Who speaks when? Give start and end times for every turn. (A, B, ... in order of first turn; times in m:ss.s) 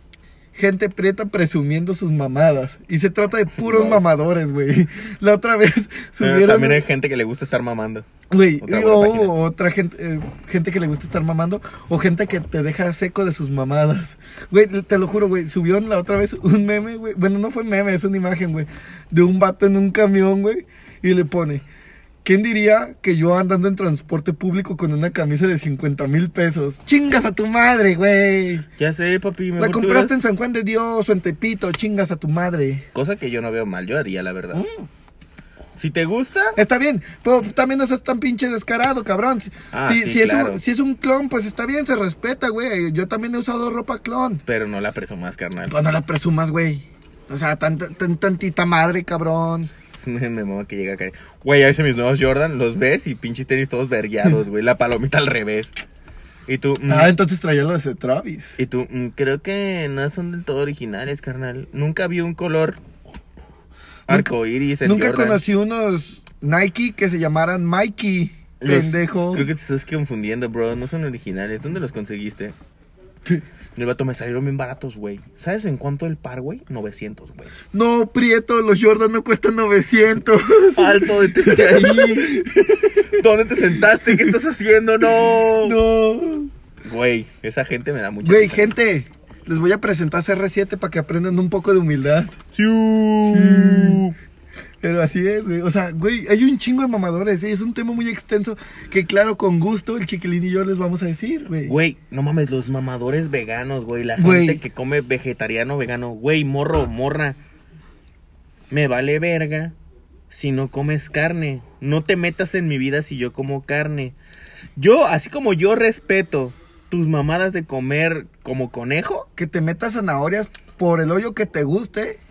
0:00.5-0:06.8 A
0:03.5-0:04.0 B
0:06.2-0:08.1 B
0:08.3-0:21.6 A
0:08.6-0:09.3 B
0:22.2-0:28.6 A
0:28.8-0:30.2 B
0:29.6-0:32.8 A
0:32.9-0:34.6 B
0:34.5-0:34.9 A
0:35.7-0:36.6 B
0:36.6-0:44.4 A
0:39.7-0:40.6 B
0:44.4-0:45.8 B
0:45.7-0:49.7 A
0:50.0-0:55.7 B
0:56.5-0:57.1 B
0:56.9-0:58.6 A
0:58.6-1:02.8 B
1:04.1-1:05.4 B
1:04.1-1:09.5 A
1:08.6-1:12.6 B
1:13.8-1:17.5 B
1:17.7-1:23.1 A
1:20.7-1:25.8 B
1:23.8-1:24.4 A
1:25.2-1:26.5 A
1:26.8-1:28.7 B
1:28.2-1:32.4 A
1:32.5-1:34.2 B
1:33.2-1:34.0 A
1:34.8-1:41.7 A
1:41.6-1:47.4 B
1:44.2-1:44.6 A
1:48.7-1:49.7 B
1:50.3-1:54.1 B
1:54.8-1:59.3 B
1:59.4-2:02.2 A